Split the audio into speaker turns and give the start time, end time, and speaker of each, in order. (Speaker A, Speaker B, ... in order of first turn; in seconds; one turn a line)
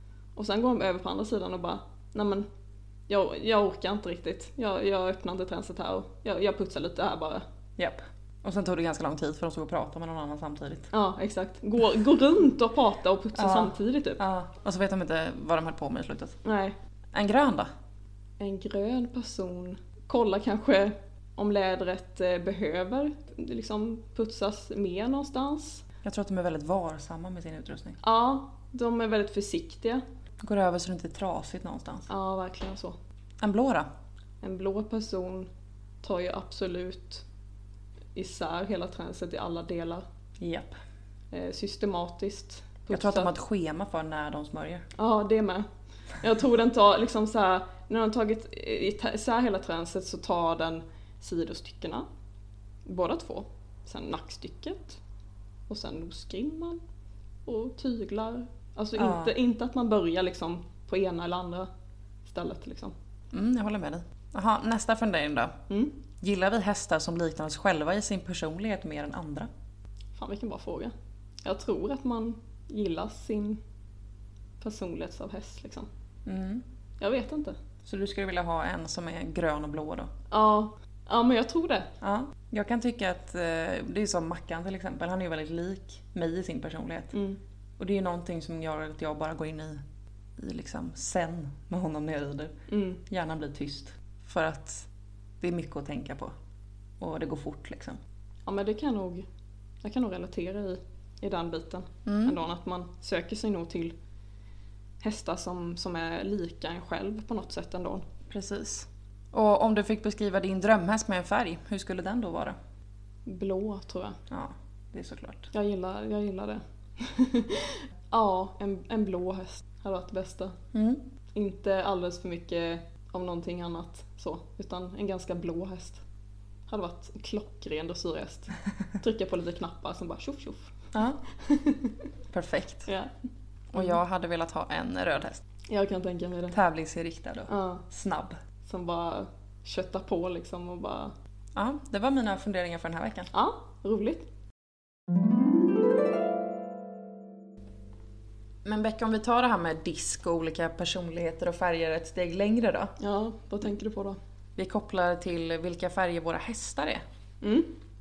Speaker A: 0.3-2.5
Speaker A: 3.1-7.4
Speaker B: 7.8-10.9
Speaker A: 10.9-14.2
Speaker B: 13.3-16.4
Speaker A: 16.4-16.8
Speaker B: 17.1-17.7
Speaker A: 18.4-25.8
Speaker B: 26.0-28.0
Speaker A: 28.0-30.0
Speaker B: 30.4-32.1
Speaker A: 32.1-33.0
Speaker B: 33.4-33.9
Speaker A: 34.4-35.5
Speaker A: 36.0-37.2
Speaker A: 38.1-40.0
Speaker B: 40.4-40.7
Speaker A: 41.3-43.3
Speaker B: 42.9-44.9
Speaker A: 45.0-45.7
Speaker A: 46.2-52.0
Speaker A: 52.9-55.0
Speaker A: 55.7-56.8
Speaker A: 57.5-61.7
Speaker B: 59.0-59.3
Speaker A: 62.2-62.9
Speaker B: 63.3-65.5
Speaker A: 65.7-65.9
Speaker B: 66.2-69.5
Speaker A: 70.2-70.9
Speaker A: 71.4-73.6
Speaker A: 74.6-75.9
Speaker B: 76.2-76.6
Speaker A: 77.0-77.5
Speaker B: 77.8-80.1
Speaker A: 80.3-81.9
Speaker B: 82.0-87.1
Speaker A: 87.1-87.4
Speaker B: 87.8-89.8
Speaker B: 90.4-92.5
Speaker A: 92.7-93.0
Speaker B: 93.0-94.9
Speaker B: 95.4-96.3
Speaker B: 97.0-98.0
Speaker A: 98.5-99.2
Speaker A: 99.8-103.9
Speaker B: 102.0-102.3
Speaker A: 105.0-108.0
Speaker B: 108.3-112.5
Speaker A: 113.2-114.2
Speaker B: 114.3-115.5
Speaker A: 115.5-120.5
Speaker B: 120.7-121.0
Speaker A: 121.3-126.0
Speaker A: 126.7-130.7
Speaker B: 130.9-131.2
Speaker A: 131.3-131.9
Speaker B: 132.3-132.9
Speaker B: 133.7-135.4
Speaker A: 135.7-136.6
Speaker B: 136.5-138.4
Speaker A: 137.5-137.8
Speaker A: 138.6-141.1
Speaker B: 141.5-143.3
Speaker A: 143.3-144.2
Speaker B: 148.6-152.9
Speaker A: 153.0-154.2
Speaker B: 154.6-157.0
Speaker A: 157.4-157.7